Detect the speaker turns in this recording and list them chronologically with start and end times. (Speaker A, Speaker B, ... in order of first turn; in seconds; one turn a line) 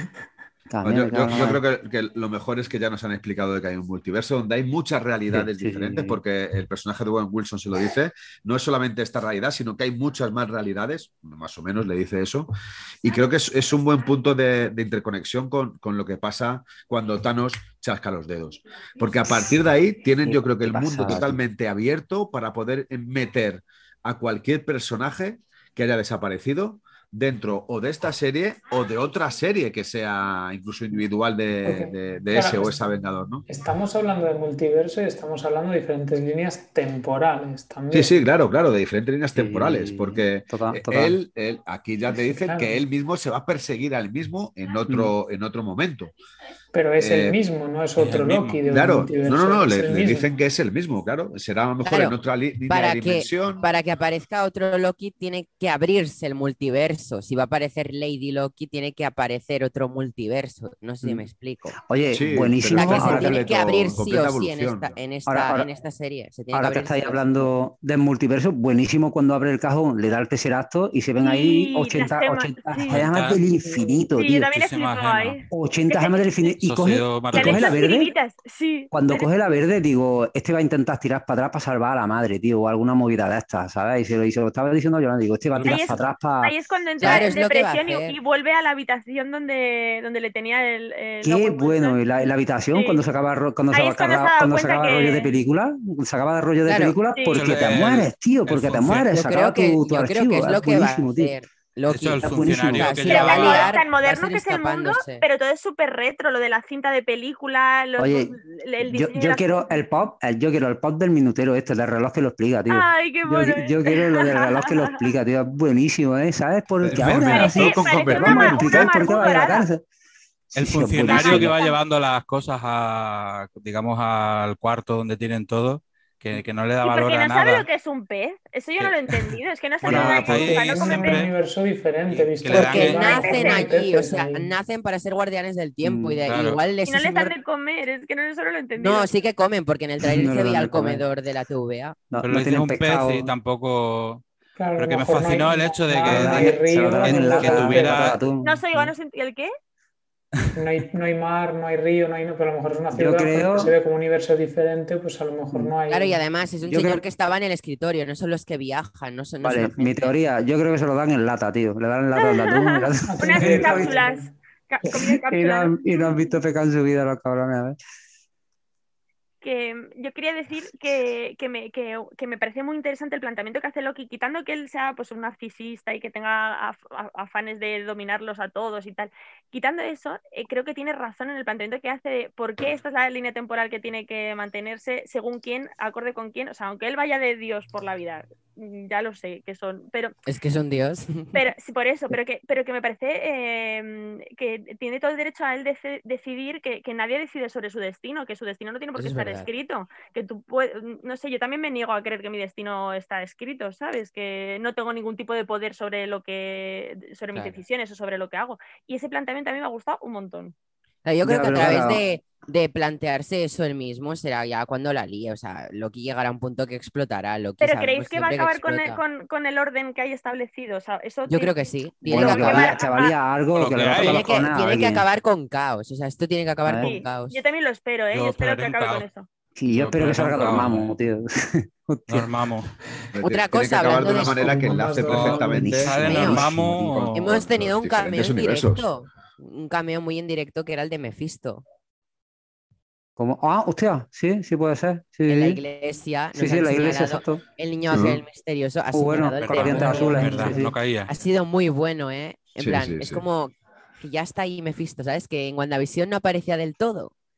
Speaker A: 0.7-1.6
Speaker B: 0.8-12.5
Speaker A: 5.3-6.2
Speaker B: 13.0-33.5
Speaker A: 20.2-21.4
Speaker C: 31.6-32.9
Speaker C: 33.5-38.1
Speaker B: 37.9-46.1
Speaker A: 39.3-41.2
Speaker C: 42.1-42.8
Speaker A: 44.9-45.1
Speaker C: 46.7-50.3
Speaker B: 47.0-47.4
Speaker D: 48.0-48.6
Speaker B: 48.6-53.6
Speaker E: 51.8-52.1
Speaker E: 52.7-61.8
Speaker A: 61.8-63.6
Speaker B: 62.1-65.0
Speaker E: 62.7-67.5
Speaker A: 65.3-65.7
Speaker A: 66.5-74.6
Speaker F: 71.2-73.1
Speaker D: 72.9-73.4
Speaker F: 74.1-76.5
Speaker D: 74.6-75.4
Speaker A: 75.5-78.1
Speaker D: 76.6-77.8
Speaker F: 77.3-79.3
Speaker A: 78.9-87.3
Speaker D: 85.5-86.0
Speaker F: 85.6-92.2
Speaker E: 87.0-88.2
Speaker A: 91.2-101.3
Speaker F: 92.7-93.0
Speaker F: 93.7-95.3
Speaker E: 96.6-97.0
Speaker F: 97.1-97.6
Speaker D: 97.3-99.1
Speaker E: 99.0-105.2
Speaker D: 101.9-103.8
Speaker A: 102.2-103.0
Speaker F: 103.0-109.8
Speaker A: 108.0-119.8
Speaker F: 112.7-115.0
Speaker B: 116.8-119.1
Speaker D: 116.9-117.5
Speaker F: 117.2-119.7
Speaker A: 120.5-121.5
Speaker D: 120.5-127.7
Speaker F: 121.0-121.8
Speaker F: 126.8-131.3
Speaker D: 128.8-129.3
Speaker D: 129.8-131.3
Speaker A: 129.8-130.5
Speaker C: 130.1-134.5
Speaker D: 132.1-133.2
Speaker E: 132.5-137.3
Speaker F: 133.1-133.7
Speaker A: 135.8-136.2
Speaker D: 136.2-136.6
Speaker F: 136.8-139.1
Speaker E: 138.8-142.0
Speaker A: 140.0-141.0
Speaker A: 142.1-143.3
Speaker D: 142.2-144.2
Speaker C: 144.6-148.1
Speaker D: 144.8-148.2
Speaker A: 146.0-148.9
Speaker F: 148.4-149.5
Speaker C: 150.5-156.2
Speaker A: 152.9-153.8
Speaker E: 155.9-160.1
Speaker A: 156.7-157.0
Speaker A: 159.4-164.0
Speaker F: 162.2-166.3
Speaker C: 163.0-164.3
Speaker A: 164.8-167.8
Speaker F: 169.4-190.1
Speaker E: 190.2-191.4
Speaker F: 191.3-210.5
Speaker E: 198.9-199.5
Speaker E: 207.3-207.6
Speaker E: 211.0-219.0
Speaker A: 211.2-212.0
Speaker F: 217.6-223.1
Speaker E: 221.3-222.7
Speaker A: 222.1-225.0
Speaker D: 223.5-224.3
Speaker E: 223.9-227.4
Speaker A: 226.7-226.9
Speaker F: 226.8-229.3
Speaker D: 228.1-229.0
Speaker A: 229.6-232.3
Speaker D: 229.7-230.9
Speaker D: 232.1-232.7
Speaker B: 233.1-238.9
Speaker E: 233.2-234.4
Speaker C: 233.8-235.8
Speaker D: 235.1-237.2
Speaker A: 235.1-236.4
Speaker E: 236.0-236.4
Speaker E: 237.1-241.6
Speaker A: 243.2-245.6
Speaker E: 245.3-257.1
Speaker A: 246.3-247.4
Speaker B: 247.9-248.2
Speaker A: 248.9-250.8
Speaker D: 249.4-251.1
Speaker C: 249.7-250.4
Speaker B: 252.6-253.2